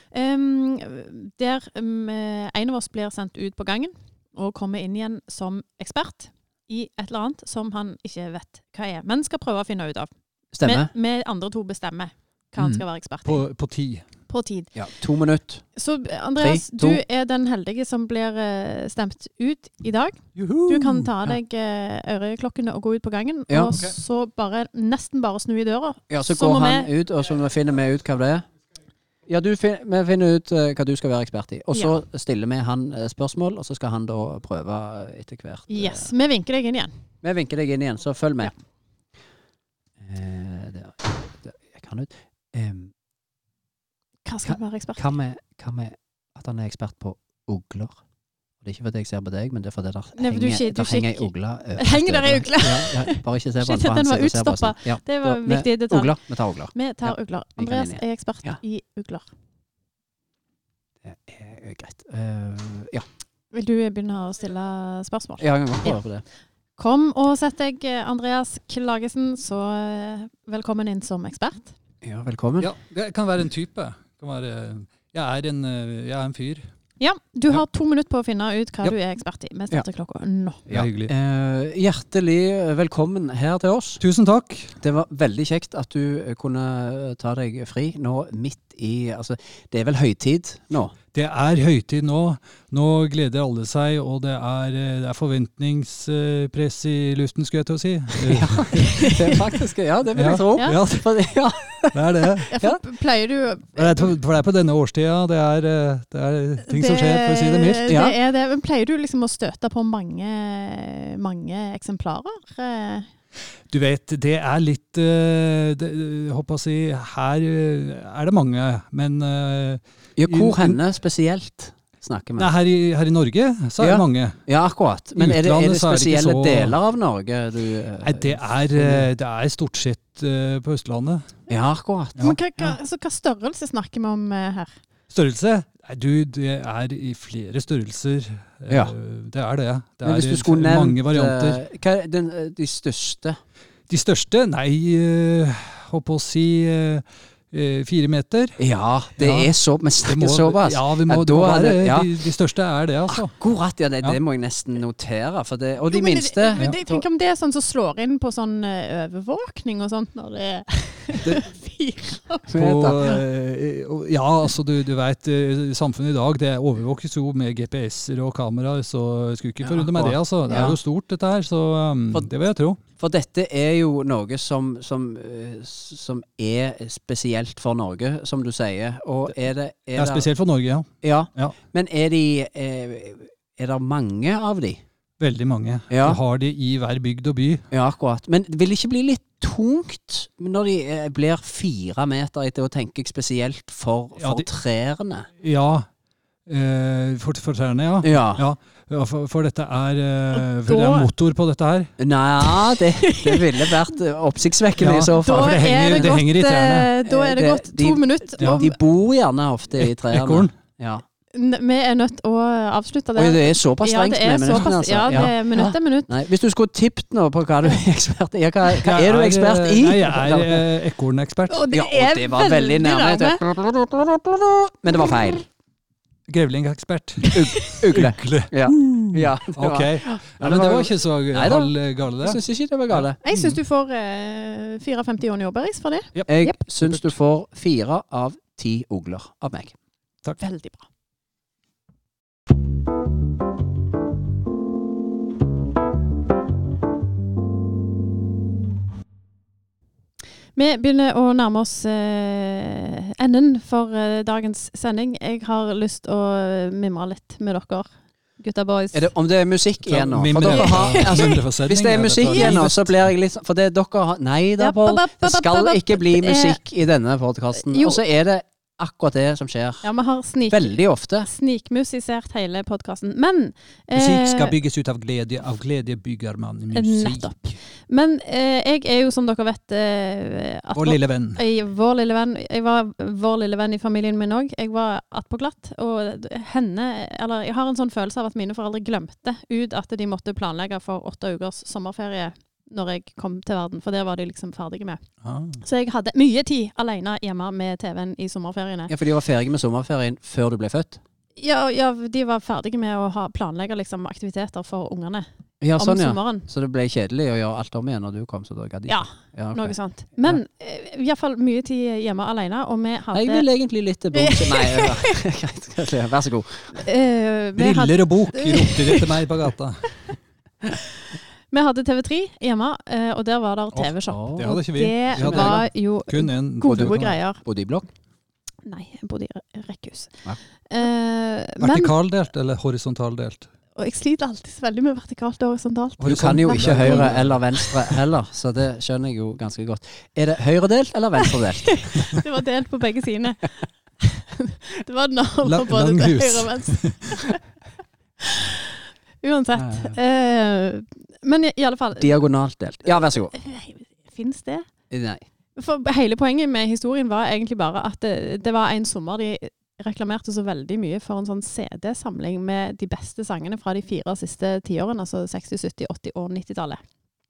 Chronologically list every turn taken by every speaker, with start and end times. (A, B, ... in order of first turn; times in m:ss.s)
0:00.1-0:10.1 A
0:10.5-0:10.9 B
0:10.6-0:13.4 A
0:12.6-0:12.8 B
0:13.2-0:14.0 C
0:14.3-0:14.7 A
0:14.7-0:15.7 B
0:15.7-0:26.9 A
0:16.4-0:17.0 B
0:20.4-0:21.3 C
0:23.5-0:23.8 B
0:26.1-0:28.4 B
0:29.3-0:36.1 B
0:35.7-0:36.9 A
0:37.2-0:38.5 B
0:40.0-0:42.9 B
0:44.2-0:45.0 A
0:44.5-0:48.0 B
0:48.6-0:58.6 B
0:50.2-0:56.2 A
0:56.7-0:59.3 A
1:01.0-1:03.0 B
1:03.5-1:06.0 A
1:05.4-1:06.2 B
1:06.8-1:11.7 A
1:12.0-1:12.7 B
1:12.6-1:16.6 C
1:17.0-1:20.6 A
1:20.7-1:24.0 B
1:20.7-1:21.1 C
1:24.0-1:24.7 C
1:24.8-1:30.9 B
1:31.1-1:39.4 C
1:38.2-1:42.8 B
1:40.1-1:41.2 C
1:41.9-1:42.5 C
1:42.5-1:44.1 A
1:43.8-1:47.9 C
1:46.7-1:53.0 A
1:47.9-1:48.1 B
1:53.7-2:00.8 C
2:00.2-2:02.5 B
2:02.4-2:04.4 C
2:03.8-2:09.1 B
2:05.1-2:06.8 C
2:08.0-2:11.3 C
2:11.5-2:12.2 B
2:12.2-2:14.7 A
2:15.1-2:21.6 C
2:20.0-2:23.4 B
2:23.9-2:28.6 C
2:28.6-2:32.2 B
2:29.2-2:33.3 C
2:33.1-2:37.0 B
2:35.8-2:42.5 A
2:42.5-2:43.2 B
2:42.5-2:52.8 C
2:49.6-2:50.8 B
2:53.0-3:00.3 B
2:59.9-3:01.6 C
3:01.0-3:04.8 B
3:05.2-3:07.6 C
3:05.9-3:06.2 B
3:07.7-3:15.3 B
3:14.2-3:14.5 C
3:15.4-3:15.9 C
3:16.5-3:21.9 C
3:18.0-3:18.4 B
3:20.3-3:21.1 A
3:22.0-3:26.2 B
3:22.4-3:23.7 A
3:24.8-3:26.9 C
3:25.2-3:28.8 A
3:27.0-3:31.0 B
3:28.4-3:28.7 C
3:29.8-3:30.5 C
3:31.3-3:36.1 A
3:33.2-3:40.7 B
3:38.7-3:41.7 C
3:41.5-3:43.4 A
3:41.7-3:45.4 B
3:46.3-3:53.6 C
3:47.3-3:53.2 B
3:47.5-3:47.8 A
3:53.2-3:56.6 A
3:56.1-3:57.1 C
3:56.3-3:59.7 B
4:00.4-4:00.8 A
4:10.5-4:19.1 A
4:18.9-4:29.9 B
4:19.8-4:23.0 C
4:20.4-4:21.3 A
4:22.2-4:22.6 A
4:24.6-4:26.6 A
4:27.6-4:28.0 A
4:29.8-4:34.6 A
4:30.5-4:31.3 B
4:33.9-4:37.6 C
4:36.7-4:55.0 A
4:40.7-4:41.4 C
4:55.2-4:55.6 C
4:55.6-4:58.9 A
4:58.9-5:01.0 B
5:01.4-5:06.5 A
5:05.6-5:10.4 B
5:08.9-5:13.5 A
5:13.1-5:16.8 B
5:14.1-5:15.2 A
5:16.8-5:19.2 A
5:17.6-5:20.0 C
5:21.5-5:27.4 A
5:23.7-5:27.1 C
5:24.1-5:24.5 B
5:25.1-5:25.7 B
5:26.7-5:27.8 B
5:28.6-5:30.1 A
5:30.7-5:31.9 A
5:31.6-5:33.5 C
5:33.8-5:36.0 A
5:36.0-5:37.9 C
5:36.0-5:42.1 B
5:41.8-5:47.4 A
5:45.4-5:47.1 C
5:48.2-5:48.7 A
5:49.2-5:52.3 A
5:49.5-5:50.0 B
5:52.0-5:53.3 B
5:52.9-5:54.7 A
5:54.9-5:55.2 B
5:55.6-6:06.8 A